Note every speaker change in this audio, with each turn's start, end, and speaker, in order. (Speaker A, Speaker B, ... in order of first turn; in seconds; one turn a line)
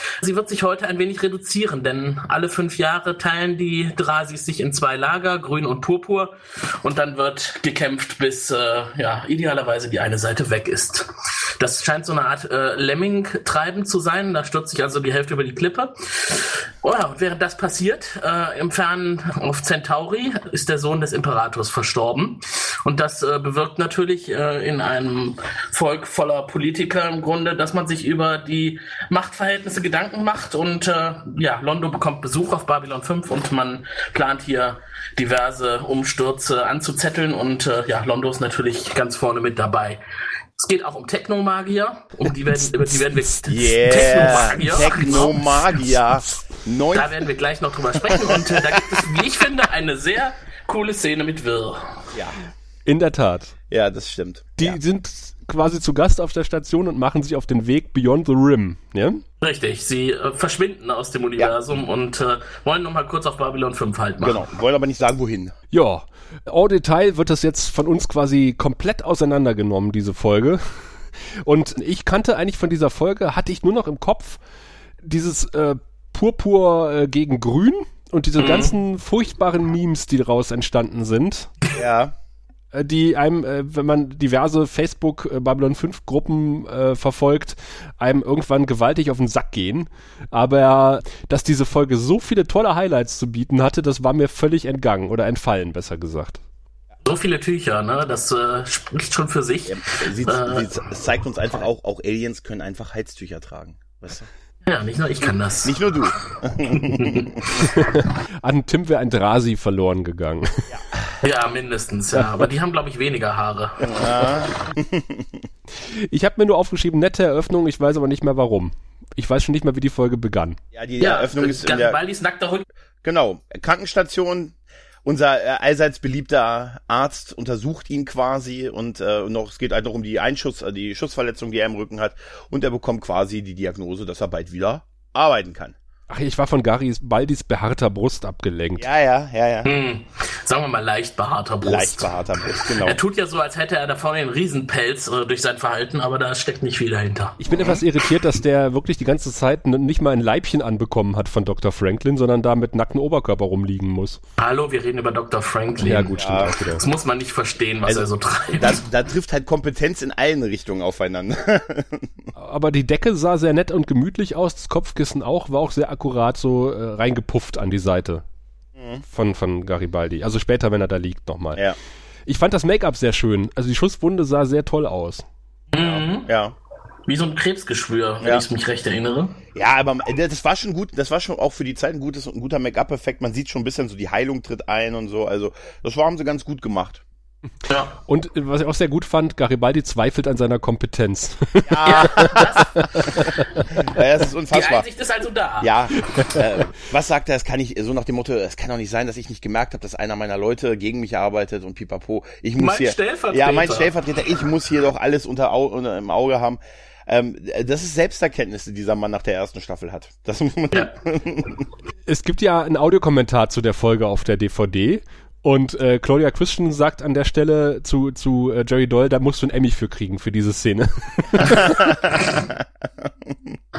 Speaker A: 0.2-40.0
Speaker A: 40.6-45.9
Speaker B: 42.5-43.3
Speaker C: 43.5-47.1
Speaker A: 46.9-52.0
Speaker C: 52.1-52.4
Speaker B: 52.9-53.5
Speaker C: 53.7-54.8
Speaker B: 54.6-59.2
Speaker A: 59.4-64.4
Speaker C: 64.2-65.5
Speaker B: 65.7-70.6
Speaker B: 71.4-74.4
Speaker B: 75.0-81.5
Speaker A: 78.4-78.7
Speaker C: 81.7-82.1
Speaker B: 82.7-96.4
Speaker A: 97.0-100.7
Speaker C: 99.7-104.3
Speaker A: 104.7-105.8
Speaker C: 105.6-107.5
Speaker A: 106.9-107.3
Speaker B: 107.8-110.5
Speaker C: 110.7-111.0
Speaker A: 111.2-114.4
Speaker C: 113.8-115.4
Speaker B: 115.9-120.6
Speaker C: 120.7-122.0
Speaker A: 121.0-122.7
Speaker C: 123.0-135.8
Speaker B: 136.1-138.9
Speaker C: 138.8-139.7
Speaker A: 139.6-147.4
Speaker C: 141.6-143.0
Speaker B: 147.4-154.2
Speaker C: 147.5-147.8
Speaker A: 154.4-158.8
Speaker B: 155.8-156.8
Speaker C: 156.2-156.5
Speaker C: 158.6-162.2
Speaker B: 162.3-168.2
Speaker C: 168.8-169.0
Speaker B: 169.1-171.6
Speaker B: 172.3-175.2
Speaker A: 175.7-176.3
Speaker C: 175.8-176.5
Speaker A: 177.1-179.3
Speaker C: 179.5-187.0
Speaker B: 188.1-193.1
Speaker C: 191.7-192.6
Speaker A: 191.8-193.3
Speaker C: 193.8-194.9
Speaker A: 194.5-195.8
Speaker C: 195.6-211.6
Speaker A: 202.6-203.9
Speaker B: 212.1-222.1
Speaker C: 221.4-223.6